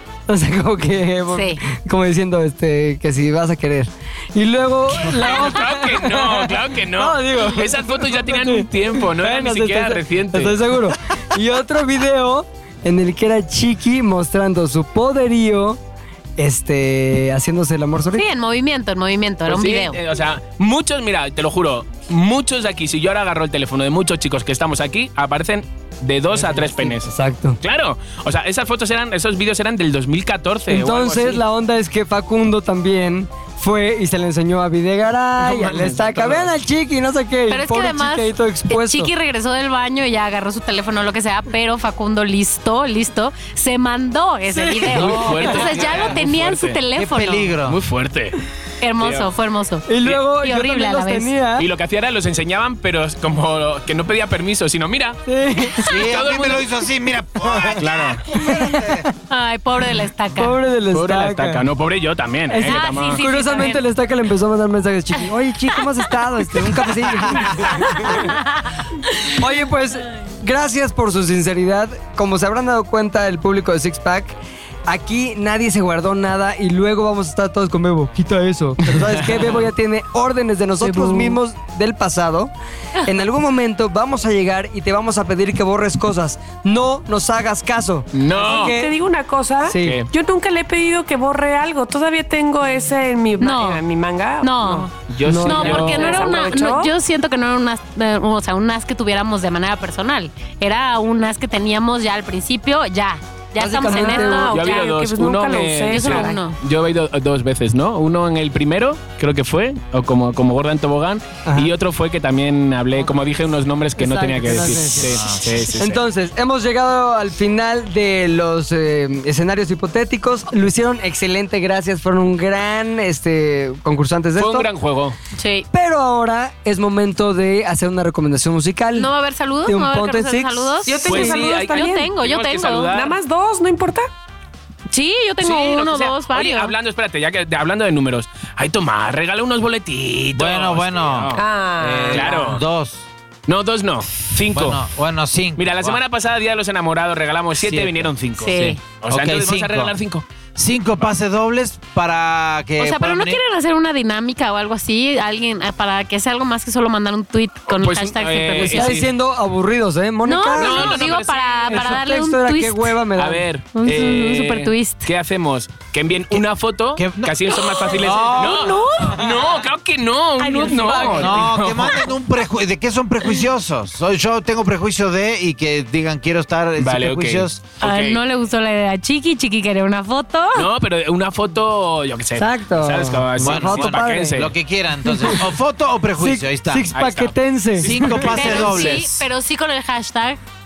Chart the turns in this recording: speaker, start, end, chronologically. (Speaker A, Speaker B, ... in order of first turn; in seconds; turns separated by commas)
Speaker A: 0.3-15.8, Speaker B: 1.3-1.6, Speaker C: 5.0-10.6, Speaker A: 16.4-18.2, Speaker B: 18.1-20.0, Speaker C: 19.5-31.4, Speaker A: 26.3-27.6, Speaker A: 30.7-39.1, Speaker C: 35.4-36.5, Speaker B: 37.5-47.5, Speaker C: 44.6-46.8, Speaker D: 45.0-46.2, Speaker A: 45.1-45.4, Speaker D: 46.9-47.8, Speaker C: 47.6-48.4, Speaker B: 48.8-49.9, Speaker C: 49.0-49.3, Speaker A: 49.9-51.7, Speaker B: 50.4-51.3, Speaker C: 51.5-55.2, Speaker A: 55.2-56.0, Speaker C: 55.8-56.6, Speaker D: 55.9-59.1, Speaker C: 57.8-58.2, Speaker A: 58.4-59.1, Speaker B: 59.3-60.6, Speaker A: 60.3-61.6, Speaker C: 60.9-63.2, Speaker A: 62.5-68.4, Speaker B: 62.6-63.8, Speaker B: 67.6-68.8, Speaker A: 69.1-82.5, Speaker C: 79.0-79.5, Speaker A: 83.0-88.9, Speaker C: 88.1-88.8, Speaker E: 88.3-96.9, Speaker A: 89.6-90.0, Speaker C: 89.8-90.1, Speaker B: 93.4-93.8, Speaker B: 94.4-94.9, Speaker C: 95.1-96.3, Speaker A: 95.2-96.0, Speaker B: 95.4-104.8, Speaker A: 103.6-104.5, Speaker E: 103.9-106.4, Speaker C: 104.5-116.0, Speaker B: 105.9-106.6, Speaker A: 111.5-111.7, Speaker A: 114.0-124.7, Speaker D: 115.0-115.8, Speaker C: 124.4-125.2, Speaker B: 125.3-125.7, Speaker A: 125.7-129.1, Speaker B: 128.9-132.9, Speaker A: 129.6-131.4, Speaker E: 130.8-132.1, Speaker C: 131.0-133.2, Speaker E: 132.9-134.1, Speaker B: 134.9-136.7, Speaker C: 135.4-141.4, Speaker D: 140.3-143.1, Speaker E: 141.3-142.6, Speaker C: 142.1-142.6, Speaker C: 143.5-144.8, Speaker D: 144.5-146.0, Speaker C: 145.6-150.2, Speaker D: 147.6-149.9, Speaker B: 148.4-148.8, Speaker D: 150.6-153.4, Speaker B: 152.8-159.0, Speaker C: 157.7-159.1, Speaker A: 158.5-161.0, Speaker B: 160.2-162.9, Speaker C: 160.6-162.0, Speaker A: 161.7-163.4, Speaker C: 163.2-172.0, Speaker B: 163.7-165.1, Speaker D: 166.9-168.7, Speaker E: 168.4-169.3, Speaker B: 168.5-169.1, Speaker E: 170.4-171.4, Speaker B: 170.4-170.7, Speaker A: 170.8-171.4, Speaker D: 171.1-177.6, Speaker C: 176.8-178.2, Speaker B: 177.8-180.7, Speaker C: 180.5-184.5, Speaker A: 182.4-184.4, Speaker D: 183.4-186.9, Speaker A: 185.0-185.5, Speaker A: 186.2-188.3, Speaker C: 186.9-189.1, Speaker D: 187.8-189.1, Speaker B: 188.2-190.4